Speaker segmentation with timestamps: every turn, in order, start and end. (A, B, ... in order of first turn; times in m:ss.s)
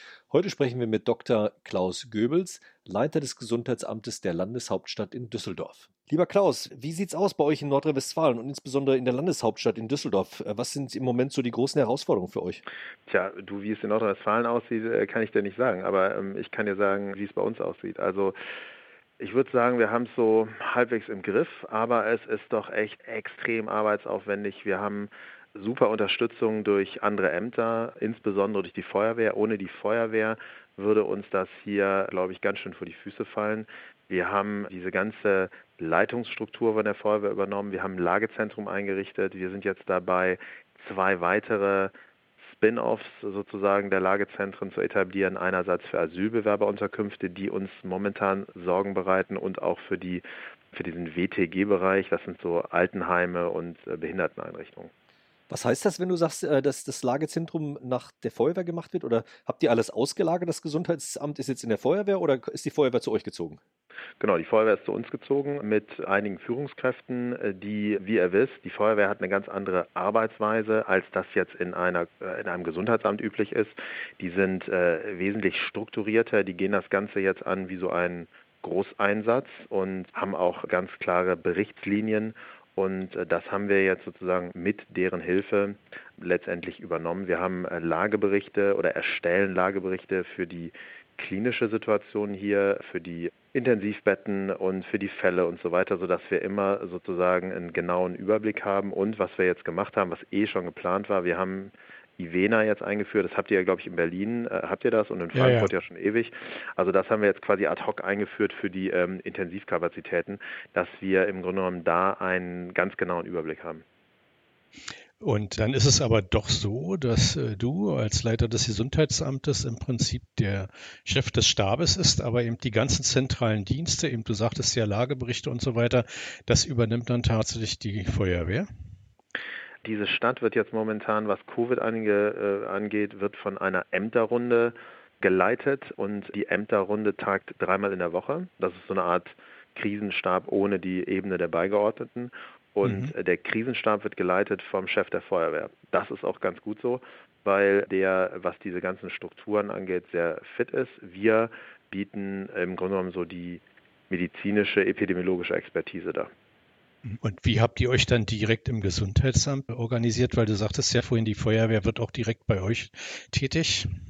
0:00.3-0:12.6 A
0:13.1-0:18.4 B
0:19.2-0:54.9 B
0:55.5-1:03.6 A
1:04.2-1:53.8 B
1:45.3-1:45.7 C
1:55.2-2:08.7 C
2:09.8-2:36.3 B
2:22.8-2:23.1 C
2:37.1-2:43.9 C